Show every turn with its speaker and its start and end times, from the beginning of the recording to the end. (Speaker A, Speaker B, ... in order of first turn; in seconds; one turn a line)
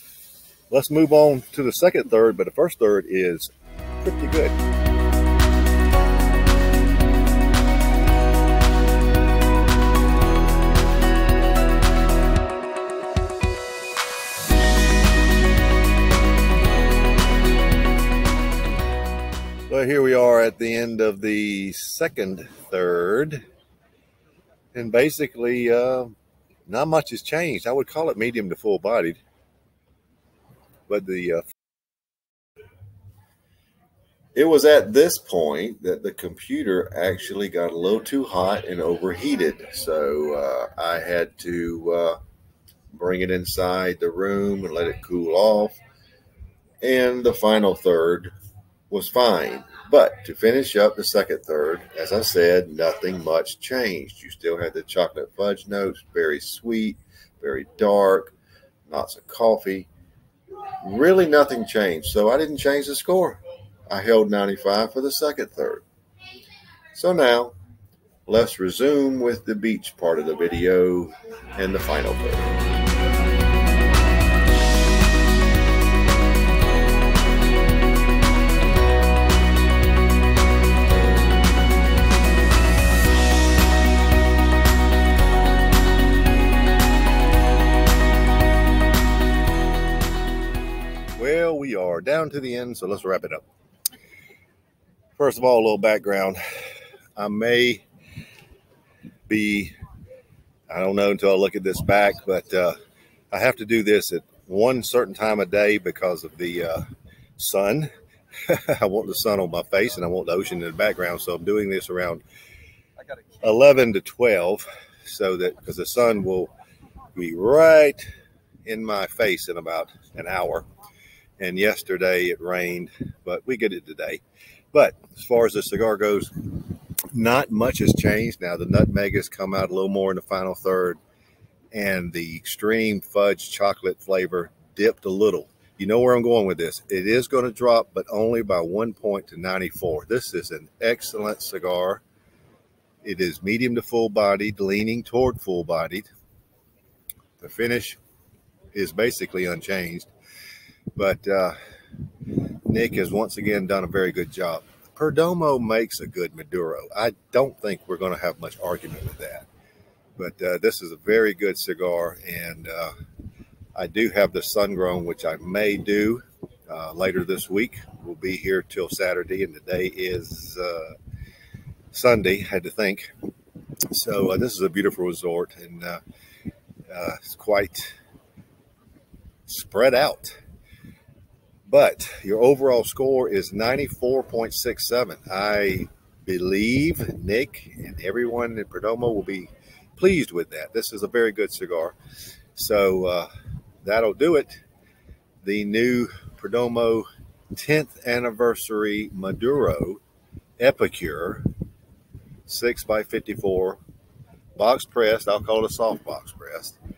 Speaker A: 0.7-4.6
Speaker A: 19.7-23.4
Speaker A: 24.7-26.1
Speaker A: 26.7-29.2
Speaker A: 30.9-31.4
Speaker A: 34.4-42.2
Speaker A: 42.9-45.8
Speaker A: 46.8-48.3
Speaker A: 48.9-58.4
Speaker A: 58.9-59.9
Speaker A: 60.8-65.8
Speaker A: 66.9-67.6
Speaker A: 68.3-72.6
Speaker A: 91.2-93.5
Speaker A: 95.2-96.4
Speaker A: 97.2-97.8
Speaker A: 99.3-99.7
Speaker A: 100.7-102.8
Speaker A: 103.3-106.9
Speaker A: 107.4-107.9
Speaker A: 108.5-112.2
Speaker A: 113.4-116.5
Speaker A: 117.2-118.0
Speaker A: 118.7-120.7
Speaker A: 121.4-124.2
Speaker A: 124.7-126.6
Speaker A: 127.1-131.0
Speaker A: 131.7-142.0
Speaker A: 143.0-146.1
Speaker A: 147.4-148.0
Speaker A: 148.7-150.1
Speaker A: 150.9-151.6
Speaker A: 152.7-159.5
Speaker A: 160.2-162.9
Speaker A: 163.8-171.0
Speaker A: 171.9-173.1
Speaker A: 173.9-176.0
Speaker A: 176.9-178.0
Speaker A: 179.5-180.4
Speaker A: 181.7-191.9
Speaker A: 192.6-193.3
Speaker A: 193.8-194.6
Speaker A: 195.4-200.0
Speaker A: 200.6-201.5
Speaker A: 202.4-203.8
Speaker A: 204.6-206.8